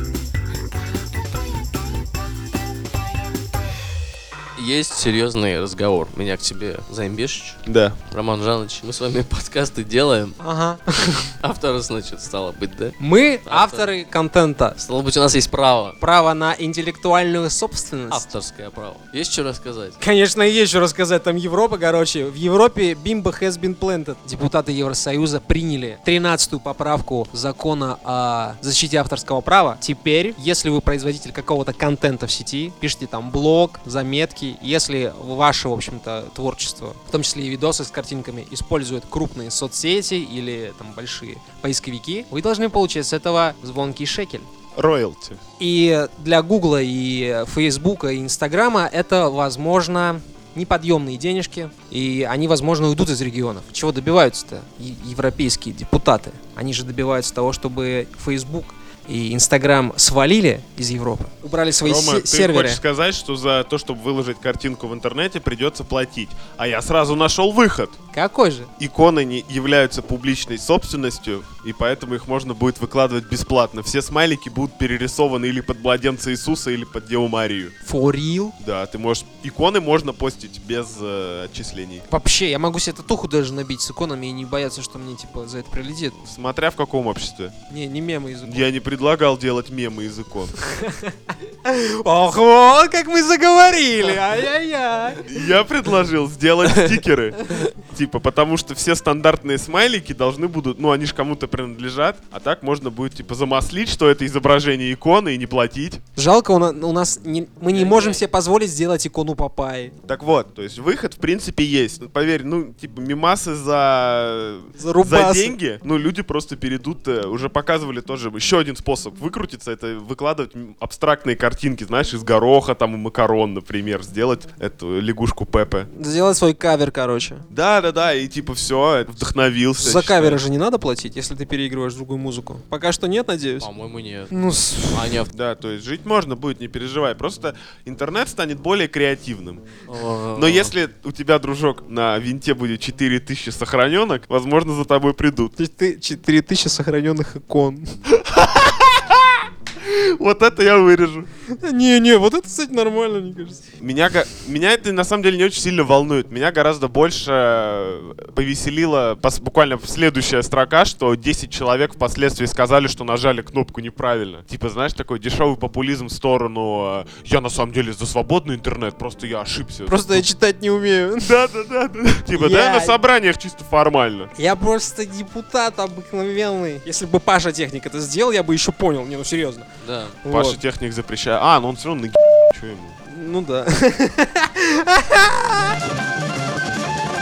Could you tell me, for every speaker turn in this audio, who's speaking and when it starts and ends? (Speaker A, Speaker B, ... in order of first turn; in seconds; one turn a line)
Speaker A: 4.5-10.4
Speaker B: 7.7-8.0
Speaker C: 10.4-11.3
Speaker A: 11.4-13.9
Speaker C: 13.0-14.8
Speaker A: 14.8-16.0
Speaker C: 16.0-18.2
Speaker A: 18.1-20.0
Speaker C: 20.0-44.5
Speaker B: 44.7-45.4
Speaker C: 45.6-62.8
Speaker B: 61.8-68.0
Speaker C: 68.1-68.7
Speaker B: 68.8-77.7
Speaker C: 77.8-78.5
Speaker B: 78.6-82.0
Speaker C: 82.1-86.2
Speaker B: 86.2-87.5
Speaker C: 87.7-88.7
Speaker B: 88.4-90.5
Speaker C: 90.6-95.3
Speaker B: 95.2-106.0
Speaker C: 106.2-109.9
Speaker A: 107.7-108.2
Speaker B: 110.1-125.9
Speaker C: 114.8-115.6
Speaker C: 125.9-127.5
Speaker B: 127.5-130.4
Speaker C: 129.8-133.7
Speaker A: 133.6-134.3
Speaker C: 134.3-135.2
Speaker A: 134.9-135.3
Speaker B: 135.3-139.7
Speaker A: 139.9-140.7
Speaker B: 140.3-145.5
Speaker C: 145.6-147.9
Speaker B: 148.1-151.3
Speaker C: 151.6-153.6
Speaker B: 153.8-170.2
Speaker C: 169.9-171.4
Speaker B: 171.2-174.3
Speaker C: 172.3-173.0
Speaker C: 174.4-179.7
Speaker A: 179.8-180.2
Speaker C: 180.2-180.6
Speaker B: 180.3-183.0
Speaker C: 183.1-185.7